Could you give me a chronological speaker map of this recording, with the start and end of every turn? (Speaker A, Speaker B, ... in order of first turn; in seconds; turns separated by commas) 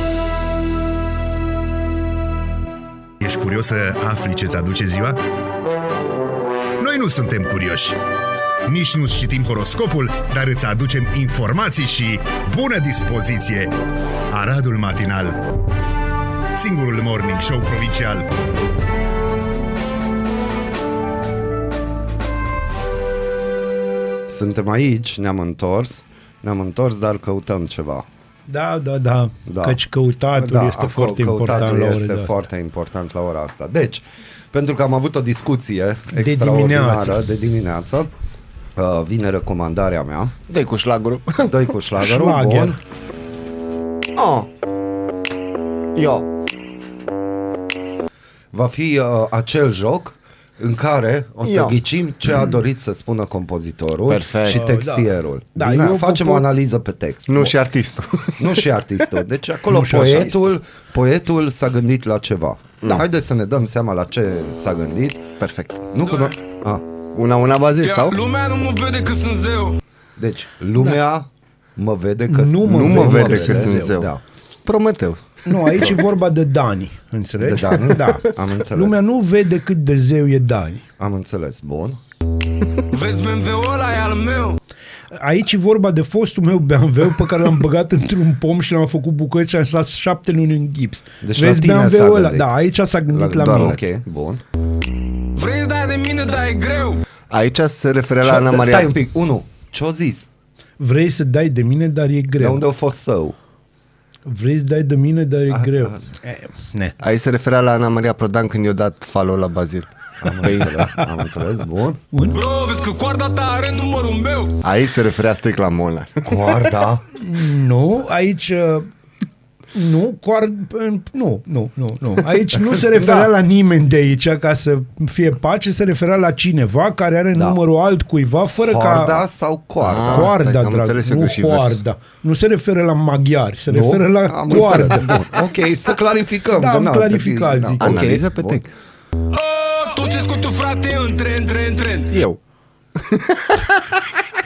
Speaker A: 3.2-5.2, Speaker A: 6.8-8.0, Speaker A: 8.7-13.7, Speaker A: 14.3-15.4, Speaker A: 16.5-18.3, Speaker B: 24.3-28.1, Speaker C: 28.5-32.4, Speaker B: 29.5-29.8, Speaker B: 30.3-38.1, Speaker C: 36.1-37.3, Speaker B: 38.8-40.3, Speaker D: 40.5-41.6, Speaker B: 41.4-42.7, Speaker C: 42.0-42.8, Speaker D: 44.1-44.5, Speaker D: 45.9-46.3, Speaker B: 48.5-57.5, Speaker D: 51.4-51.8, Speaker D: 54.0-54.7, Speaker C: 54.4-56.5, Speaker D: 57.2-59.2, Speaker B: 58.4-65.3, Speaker C: 59.7-60.4, Speaker D: 65.4-65.9, Speaker B: 65.9-66.8, Speaker D: 67.1-68.2, Speaker E: 67.8-69.8, Speaker B: 70.2-74.2, Speaker C: 72.3-74.0, Speaker D: 72.6-74.1, Speaker D: 74.7-76.0, Speaker C: 75.4-80.8, Speaker B: 77.4-79.0, Speaker B: 81.0-82.0, Speaker E: 82.9-84.6, Speaker C: 85.1-93.8, Speaker B: 91.2-92.5, Speaker B: 93.1-94.4, Speaker D: 93.4-93.8, Speaker E: 95.3-97.0, Speaker D: 97.3-98.9, Speaker B: 98.2-100.3, Speaker C: 100.8-102.6, Speaker B: 102.4-103.3, Speaker C: 104.2-106.9, Speaker B: 105.5-106.0, Speaker D: 107.0-110.9, Speaker B: 110.2-112.0, Speaker E: 112.3-114.6, Speaker D: 114.6-116.5, Speaker B: 116.2-117.0, Speaker C: 117.1-118.9, Speaker C: 119.7-129.2, Speaker D: 122.9-123.3, Speaker B: 128.7-130.3, Speaker D: 129.8-131.8, Speaker C: 129.9-135.2, Speaker B: 133.7-138.6, Speaker C: 136.6-138.1, Speaker D: 137.8-138.7, Speaker E: 139.3-142.2, Speaker D: 142.1-142.4, Speaker D: 142.9-144.0